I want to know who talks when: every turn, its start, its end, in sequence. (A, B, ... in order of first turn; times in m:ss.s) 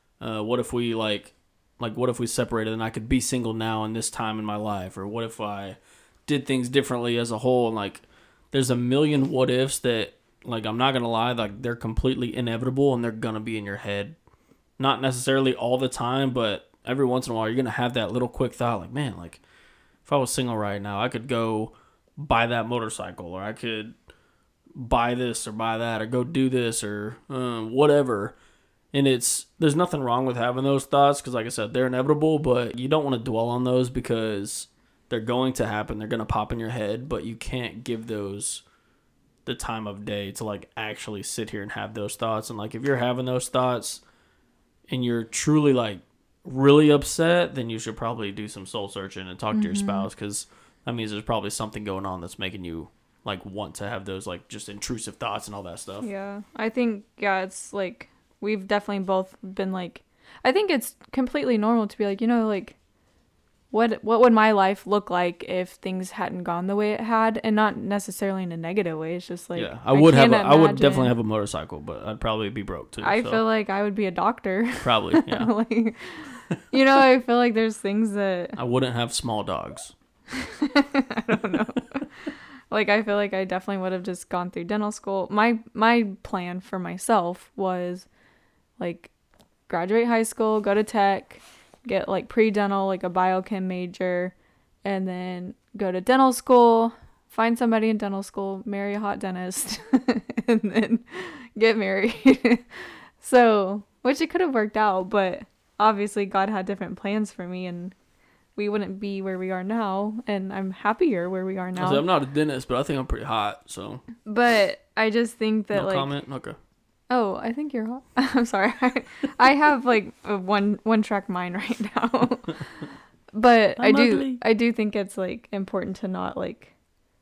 0:00.2-0:14.2 A
0:14.8-0:19.4 A
0:20.0-0:24.0 A
0:24.7-0:28.4 A
0:28.9-0:38.6 A
0:39.4-0:44.0 A
0:44.9-0:56.1 A
0:49.5-0:50.1 B
0:56.0-1:02.8 B
1:03.7-1:11.1 B
1:09.6-1:13.4 A
1:13.0-1:18.6 B
1:14.8-1:15.5 A
1:18.6-1:19.9 A
1:20.6-1:28.1 B
1:21.5-1:21.8 A
1:28.8-1:29.1 B
1:29.7-1:48.0 B
1:48.6-1:52.0 B
1:51.8-1:54.0 A
1:54.2-1:56.1 B
1:55.7-1:56.6 A
1:57.1-2:06.7 B
2:03.8-2:04.4 A